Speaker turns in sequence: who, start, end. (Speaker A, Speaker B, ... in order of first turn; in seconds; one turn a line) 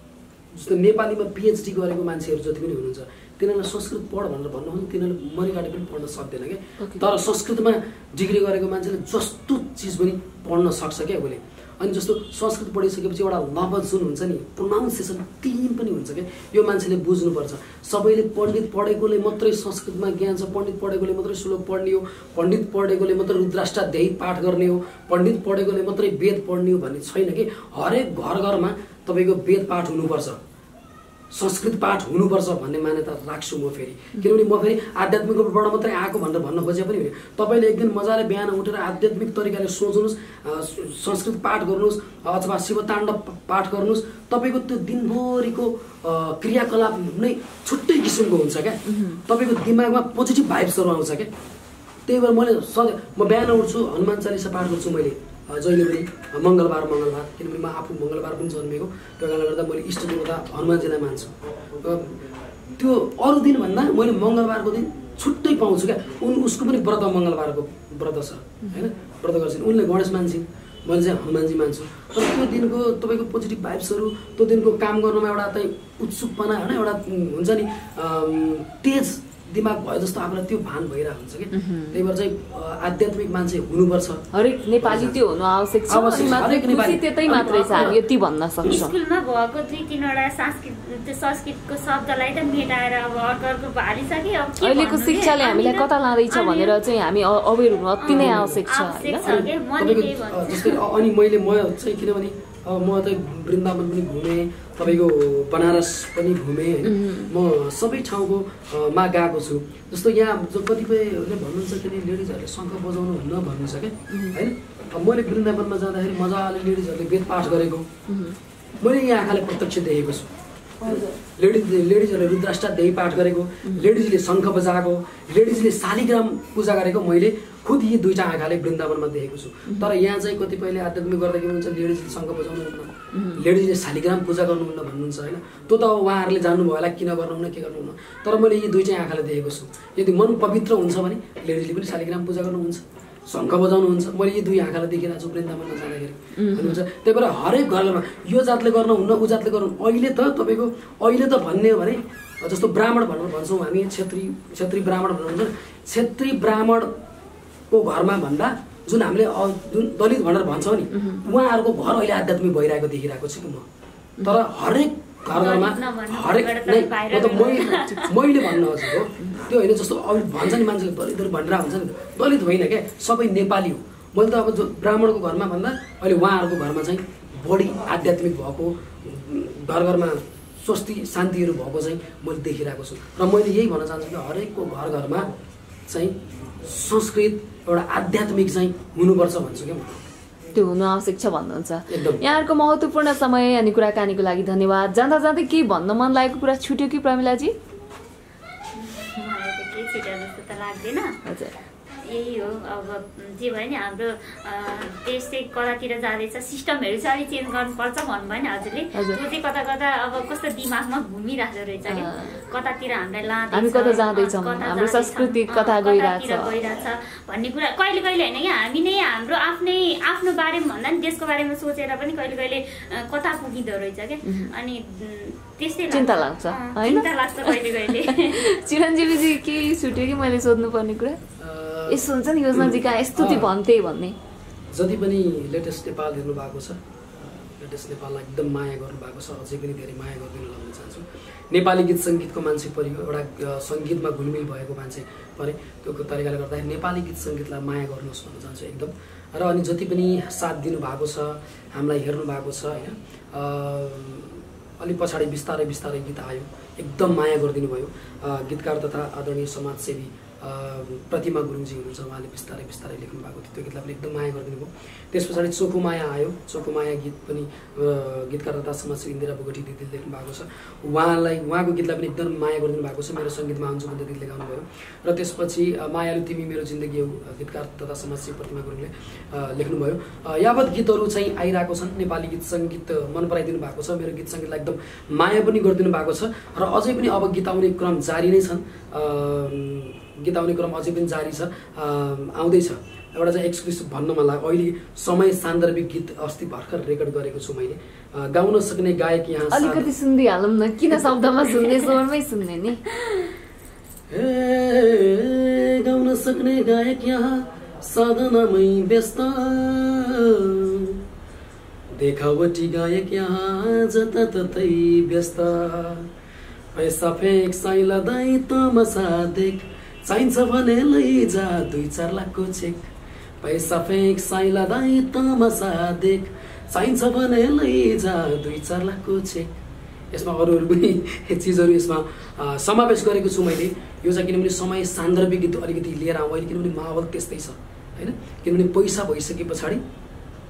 Speaker A: 0.5-30.4
Speaker B: 6.8-7.0
Speaker A: 31.3-51.3
Speaker B: 48.9-49.2
Speaker A: 52.1-62.2
Speaker A: 62.8-84.3
Speaker B: 81.5-82.0
Speaker B: 84.3-88.9
Speaker A: 84.8-85.2
Speaker A: 85.9-88.0
Speaker C: 87.3-88.0
Speaker C: 88.6-96.7
Speaker B: 94.6-99.3
Speaker C: 98.0-100.8
Speaker A: 98.1-98.6
Speaker A: 99.2-117.9
Speaker B: 106.8-107.3
Speaker B: 114.1-114.4
Speaker B: 118.1-118.4
Speaker A: 118.8-120.3
Speaker B: 120.8-121.2
Speaker A: 120.8-156.9
Speaker B: 133.1-133.4
Speaker B: 146.4-146.8
Speaker A: 157.7-163.7
Speaker B: 160.9-161.2
Speaker A: 164.2-185.3
Speaker C: 165.3-168.1
Speaker A: 185.9-190.1
Speaker B: 190.5-197.6
Speaker A: 191.9-192.2
Speaker C: 198.7-201.2
Speaker B: 201.2-201.5
Speaker C: 202.0-228.5
Speaker B: 208.9-209.2
Speaker B: 211.9-212.4
Speaker B: 213.5-216.6
Speaker B: 224.2-224.5
Speaker B: 225.9-231.2
Speaker A: 231.4-233.5
Speaker B: 231.9-234.2
Speaker A: 234.7-299.9
Speaker B: 299.5-302.8
Speaker A: 304.1-311.0
Speaker A: 311.9-316.1
Speaker A: 316.8-322.9
Speaker A: 323.4-329.5
Speaker A: 330.1-339.8